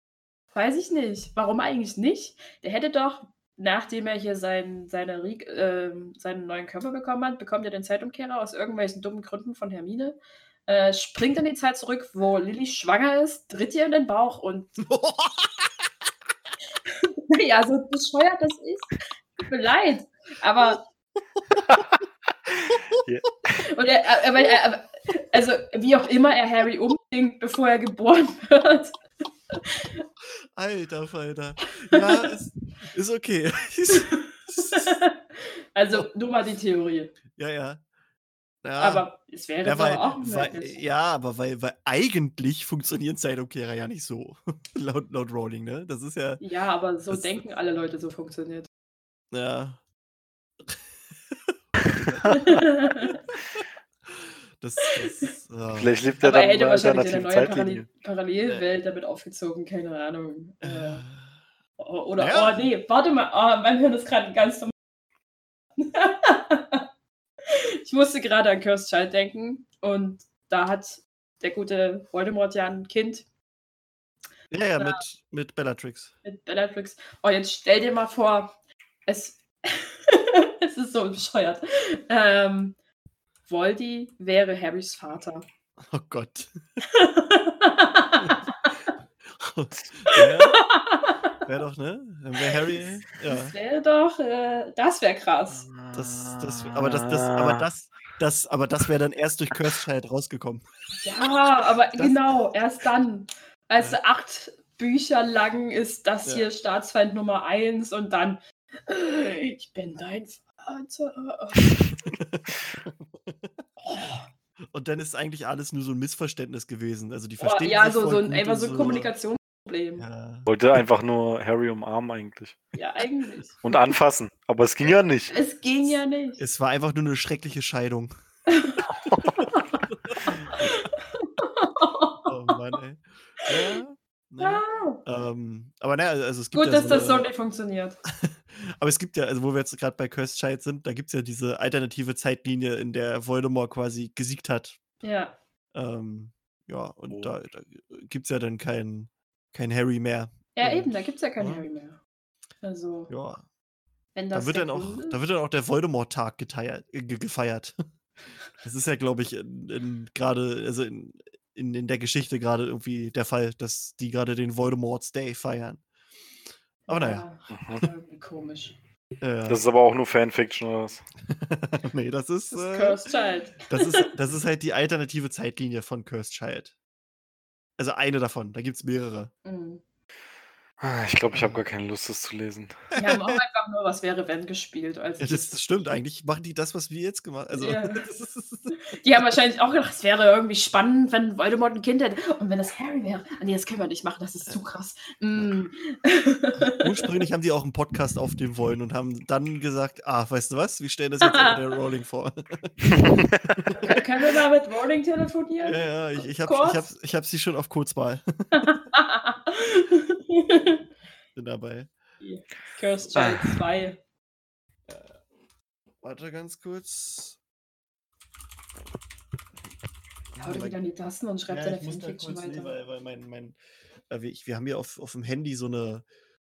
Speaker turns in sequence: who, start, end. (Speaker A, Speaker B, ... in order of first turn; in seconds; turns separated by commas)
Speaker A: 0.5-14.8, Speaker B: 14.8-15.9, Speaker A: 16.9-20.8, Speaker C: 21.7-22.0, Speaker C: 22.6-23.3, Speaker B: 22.7-23.0, Speaker A: 23.5-29.0, Speaker A: 29.5-30.0, Speaker B: 30.6-34.9, Speaker A: 31.9-32.3, Speaker A: 33.9-37.1, Speaker B: 37.4-37.8, Speaker B: 38.6-39.1, Speaker A: 38.8-40.8, Speaker B: 39.6-46.4, Speaker A: 46.4-48.7, Speaker B: 47.1-47.4, Speaker B: 49.3-49.8, Speaker B: 51.3-52.6, Speaker A: 52.3-53.2, Speaker B: 54.1-55.9, Speaker A: 54.8-55.3, Speaker C: 55.8-57.9, Speaker A: 56.2-61.0, Speaker B: 60.6-61.4, Speaker A: 61.8-64.7, Speaker B: 62.2-62.7, Speaker A: 65.8-66.8, Speaker A: 67.5-73.3, Speaker B: 74.5-76.2, Speaker A: 76.2-82.8, Speaker A: 83.5-85.5, Speaker B: 85.9-86.5, Speaker A: 86.9-88.8, Speaker B: 89.3-90.6, Speaker A: 90.1-91.4, Speaker B: 91.5-93.5, Speaker A: 93.2-95.7, Speaker C: 95.6-97.7, Speaker B: 95.9-100.7, Speaker A: 101.0-111.7, Speaker B: 112.0-113.7, Speaker A: 113.9-114.3, Speaker B: 114.7-119.1, Speaker A: 117.4-120.1, Speaker B: 120.0-120.5, Speaker C: 120.5-122.6, Speaker A: 122.8-123.6, Speaker C: 123.6-125.3, Speaker A: 125.3-126.4, Speaker B: 126.4-128.1, Speaker A: 128.5-128.8, Speaker C: 129.1-129.3, Speaker B: 129.3-130.7, Speaker A: 130.6-132.3, Speaker B: 132.3-137.3, Speaker A: 134.4-135.0, Speaker A: 136.5-138.0, Speaker B: 138.1-144.8, Speaker A: 145.0-145.3, Speaker B: 145.7-151.6, Speaker A: 150.6-152.0, Speaker A: 152.6-153.1, Speaker B: 153.1-153.5, Speaker A: 154.2-155.2, Speaker B: 154.3-157.8, Speaker B: 158.6-165.8, Speaker B: 166.9-167.3, Speaker A: 166.9-168.8, Speaker C: 167.5-167.8, Speaker B: 169.2-169.6, Speaker C: 169.5-171.0, Speaker B: 171.3-173.0, Speaker A: 172.5-174.1, Speaker B: 173.7-176.7, Speaker B: 177.8-179.3, Speaker A: 179.4-179.8, Speaker C: 180.8-182.9, Speaker B: 181.3-181.6, Speaker B: 182.9-183.4, Speaker A: 183.0-185.5, Speaker B: 185.2-188.7, Speaker A: 187.6-188.1, Speaker A: 188.8-196.8, Speaker B: 196.7-204.0, Speaker A: 201.2-201.6, Speaker A: 203.8-206.9, Speaker B: 205.7-208.7, Speaker A: 208.5-210.8, Speaker B: 211.3-211.9, Speaker A: 212.2-214.0, Speaker C: 213.2-213.6, Speaker B: 214.9-215.1, Speaker B: 216.0-217.4, Speaker B: 220.3-220.8, Speaker A: 220.4-222.7, Speaker B: 221.5-223.6, Speaker B: 224.1-226.1